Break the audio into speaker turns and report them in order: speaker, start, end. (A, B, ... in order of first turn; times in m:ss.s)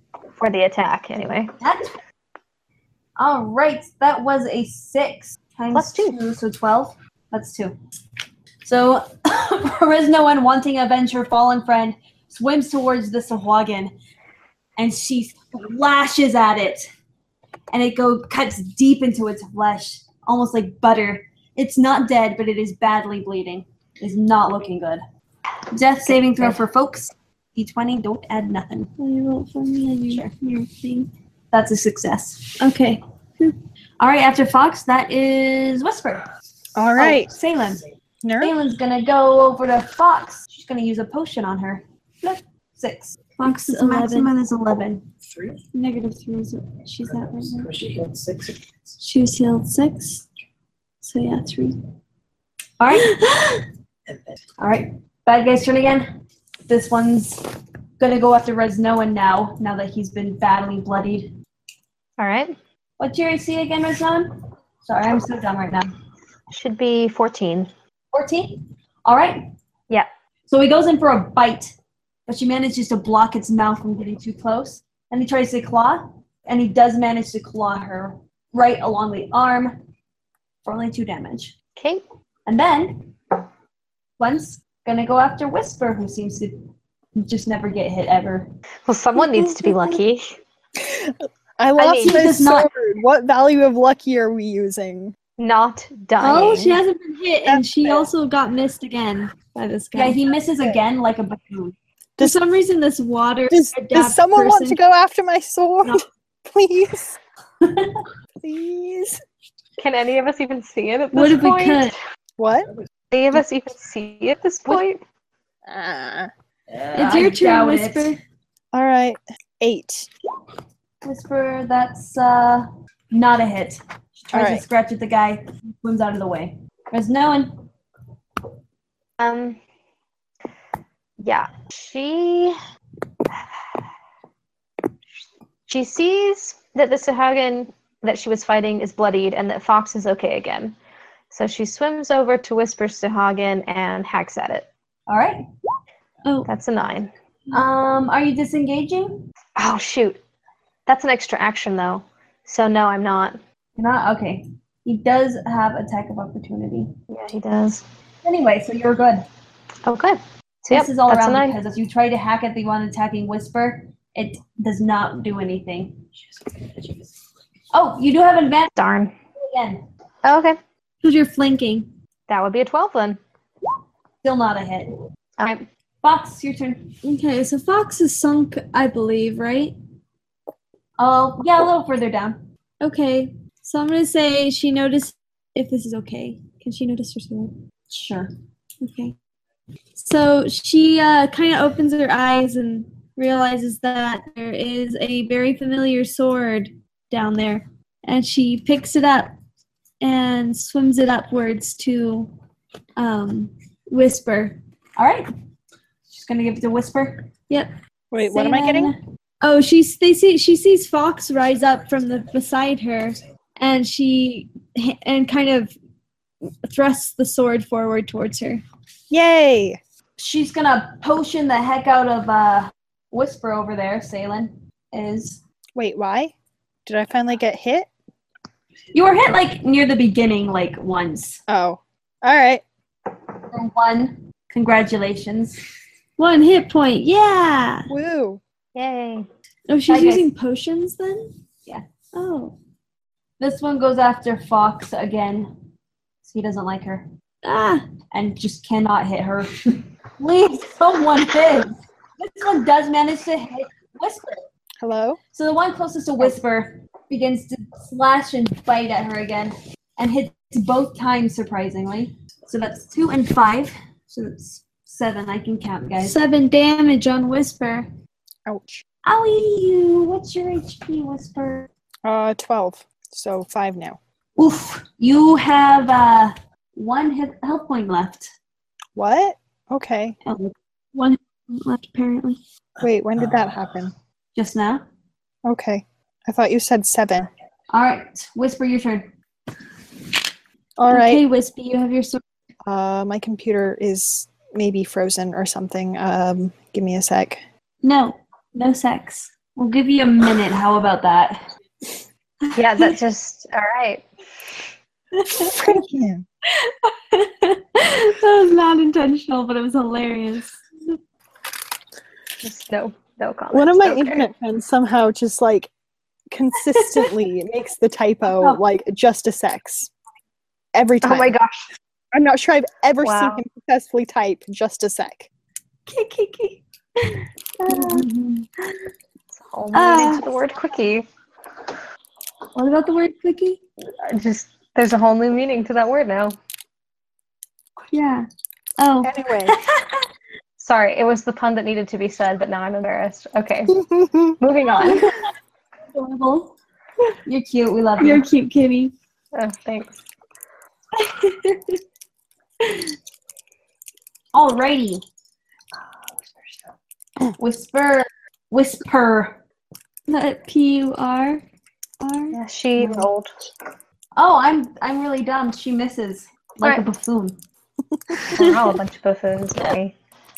0:00.3-0:01.5 A
0:01.6-0:02.0 B
0:03.2-0:07.8 B
0:05.7-0:06.2 A
0:08.6-0:13.9 B
0:14.8-0:16.9 B
0:17.7-0:25.0 B
0:25.7-0:28.9 B
0:26.1-0:26.6 A
0:29.0-0:31.1 C
0:31.5-0:32.6 B
0:32.6-0:33.6 C
0:34.0-0:36.3 B
0:36.7-0:37.3 D
0:37.0-0:37.8 B
0:38.2-0:38.5 D
0:38.4-0:45.1 B
0:43.4-0:44.3 C
0:45.3-0:45.6 E
0:45.7-0:47.7 C
0:47.1-0:48.6 E
0:49.0-0:50.2 C
0:51.0-0:51.8 C
0:52.8-0:53.1 B
0:52.9-0:53.6 C
0:54.1-0:54.4 E
0:54.6-0:56.1 B
0:56.7-0:57.4 B
0:58.0-1:01.3 B
1:02.2-1:02.6 A
1:03.0-1:05.9 B
1:06.5-1:07.7 A
1:08.1-1:09.5 B
1:10.5-1:11.7 B
1:12.3-1:19.8 B
1:20.6-1:21.6 B
1:21.8-1:22.0 A
1:22.4-1:23.1 B
1:24.2-1:28.5 B
1:28.8-1:30.4 A
1:30.8-1:35.1 D
1:31.8-1:32.2 A
1:31.8-1:32.7 B
1:35.4-1:36.8 A
1:36.2-1:40.2 C
1:37.4-1:38.1 D
1:39.9-1:41.7 B
1:42.2-1:44.8 C
1:43.5-1:47.2 D
1:47.6-1:48.0 B
1:48.4-1:49.2 D
1:49.8-1:51.9 A
1:51.1-1:51.9 C
1:52.4-1:52.7 D
1:53.1-1:55.0 A
1:55.6-1:56.3 D
1:56.7-1:58.2 B
1:56.9-1:58.2 C
1:58.7-2:00.1 D
2:01.0-2:07.6 B
2:04.3-2:04.6 D
2:09.2-2:09.6 A
2:11.2-2:12.6 A
2:15.7-2:20.8 A
2:21.3-2:24.7 A
2:25.1-2:25.4 B
2:26.4-2:27.1 A
2:27.5-2:29.2 B
2:29.6-2:30.2 A
2:30.9-2:33.4 A
2:33.8-2:36.9 B
2:37.1-2:37.8 A
2:38.2-2:39.3 B
2:39.8-2:41.6 A
2:40.7-2:46.0 B
2:47.7-2:48.7 B
2:48.7-2:49.1 A
2:49.4-2:49.8 B
2:50.2-2:50.6 A
2:51.0-2:51.9 C
2:52.3-2:53.2 A
2:54.2-2:55.0 B
2:55.4-2:55.7 A
2:56.0-2:57.0 B
2:57.0-2:59.7 C
3:01.0-3:02.4 B
3:02.8-3:07.6 C
3:07.9-3:08.3 B
3:08.8-3:09.1 C
3:10.0-3:19.4 C
3:20.0-3:22.3 C
3:23.0-3:24.6 C
3:25.0-3:25.3 B
3:26.1-3:27.3 B
3:28.1-3:28.9 D
3:28.3-3:35.7 C
3:36.6-3:38.6 C
3:39.1-3:39.8 D
3:40.2-3:45.4 B
3:45.8-3:46.3 D
3:46.8-3:47.9 D
3:48.9-3:51.4 B
3:51.5-3:52.6 D
3:53.5-3:55.6 B
3:56.2-3:57.9 C
3:57.9-3:58.4 D
3:58.7-3:59.3 A
3:59.7-4:01.3 C
3:59.9-4:00.3 B
4:02.1-4:02.5 C
4:03.4-4:05.5 B
4:06.2-4:07.1 B
4:07.4-4:07.9 C
4:08.1-4:14.4 B
4:14.8-4:15.2 D
4:15.3-4:26.2 B
4:26.0-4:27.9 C
4:28.4-4:28.8 D
4:29.0-4:31.7 B
4:32.0-4:34.0 D
4:34.4-4:38.3 B
4:39.0-4:40.2 D
4:40.2-4:40.5 B
4:40.9-4:42.4 C
4:42.8-4:43.9 D
4:44.3-4:44.8 B
4:45.4-4:47.3 D
4:47.7-4:49.1 B
4:50.8-4:51.2 D
4:50.9-4:52.2 C
4:52.6-4:57.4 D
4:57.8-4:59.6 C
4:59.3-5:01.5 B
5:02.5-5:04.0 A
5:05.4-5:06.2 D
5:06.6-5:10.5 C
5:12.4-5:14.3 A
5:13.5-5:15.7 D
5:16.3-5:19.9 D
5:20.7-5:21.3 D
5:21.0-5:21.6 A
5:22.1-5:25.3 D
5:23.0-5:23.4 A
5:25.9-5:28.9 C
5:27.7-5:28.0 B
5:29.3-5:31.1 A
5:29.7-5:30.3 C
5:32.6-5:33.6 C
5:34.0-5:36.4 A
5:37.9-5:39.8 C
5:39.0-5:39.6 D
5:40.6-5:43.8 A
5:44.4-5:45.0 A
5:44.8-5:45.2 C
5:45.9-5:46.5 C
5:47.2-5:48.2 B
5:48.0-5:48.9 C
5:49.3-5:50.0 A
5:51.0-5:51.8 C
5:52.6-5:52.9 C
5:54.3-5:55.0 B
5:57.4-5:59.4 B
6:00.1-6:01.4 C
6:02.0-6:02.4 C
6:02.3-6:03.3 A
6:02.8-6:03.0 B
6:04.2-6:07.4 B
6:06.6-6:06.9 A
6:08.3-6:09.9 A